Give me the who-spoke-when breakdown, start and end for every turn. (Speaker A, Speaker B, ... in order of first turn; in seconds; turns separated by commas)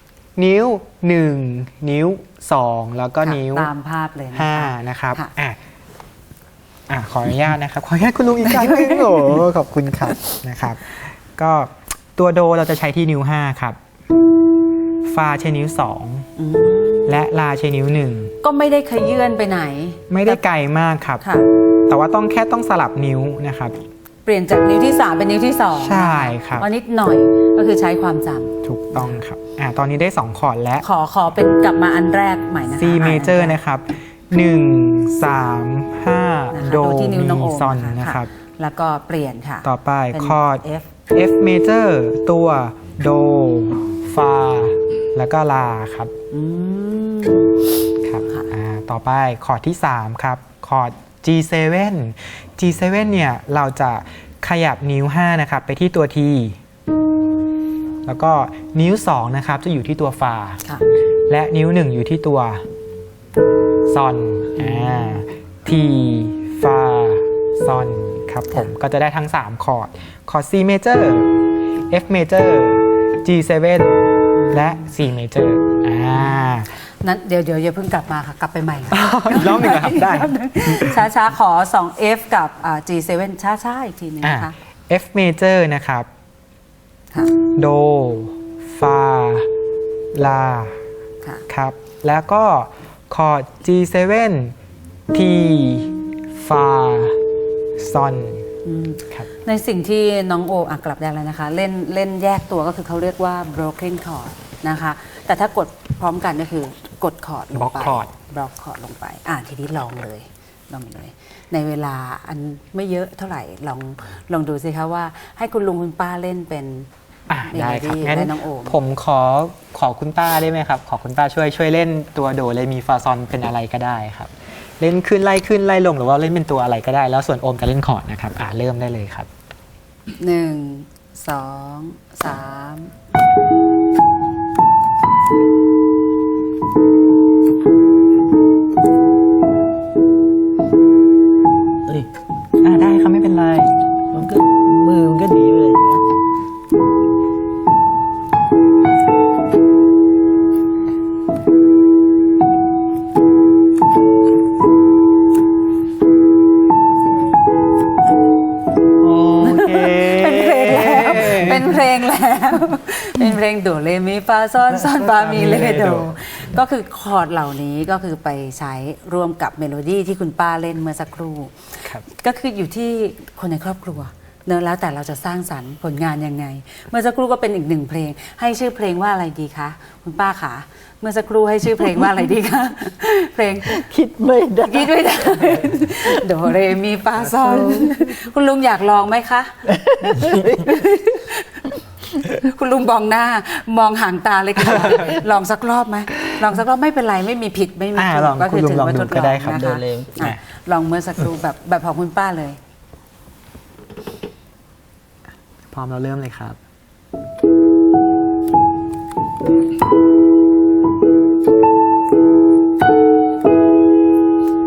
Speaker A: 0.4-3.7, Speaker B: 3.2-5.3, Speaker A: 4.3-5.6, Speaker A: 6.9-13.8, Speaker B: 8.4-9.4, Speaker A: 15.0-16.3, Speaker B: 16.4-17.2, Speaker A: 17.1-18.3, Speaker B: 18.4-20.4, Speaker A: 20.1-21.2, Speaker B: 21.2-21.5, Speaker A: 21.9-23.8, Speaker B: 24.3-29.2, Speaker A: 25.8-26.7, Speaker A: 28.6-30.9, Speaker B: 30.8-33.6, Speaker A: 32.7-38.3, Speaker B: 36.5-40.9, Speaker A: 39.6-46.1, Speaker B: 46.3-47.6, Speaker A: 48.0-56.6, Speaker A: 58.0-60.6, Speaker A: 61.3-62.6, Speaker A: 63.9-71.4, Speaker B: 64.6-65.2, Speaker A: 71.9-74.0, Speaker B: 74.4-74.9, Speaker A: 74.5-76.7, Speaker B: 77.0-84.5, Speaker A: 78.9-81.1, Speaker A: 84.2-86.1, Speaker A: 87.4-89.5, Speaker A: 90.1-90.8, Speaker A: 91.5-94.6, Speaker A: 95.1-97.2, Speaker A: 97.8-98.5, Speaker B: 98.7-116.9, Speaker A: 107.5-108.1, Speaker A: 117.3-129.3, Speaker B: 117.5-118.8, Speaker B: 130.2-132.9, Speaker A: 142.6-143.8, Speaker C: 144.1-146.0, Speaker A: 159.0-161.8, Speaker B: 159.4-183.9, Speaker A: 164.9-166.6, Speaker C: 183.7-186.1, Speaker B: 184.6-189.7, Speaker C: 187.4-188.1, Speaker C: 189.7-190.7, Speaker B: 190.6-191.7, Speaker B: 192.2-202.6, Speaker A: 194.6-195.2, Speaker A: 197.9-199.6, Speaker C: 199.5-200.2, Speaker A: 205.7-206.6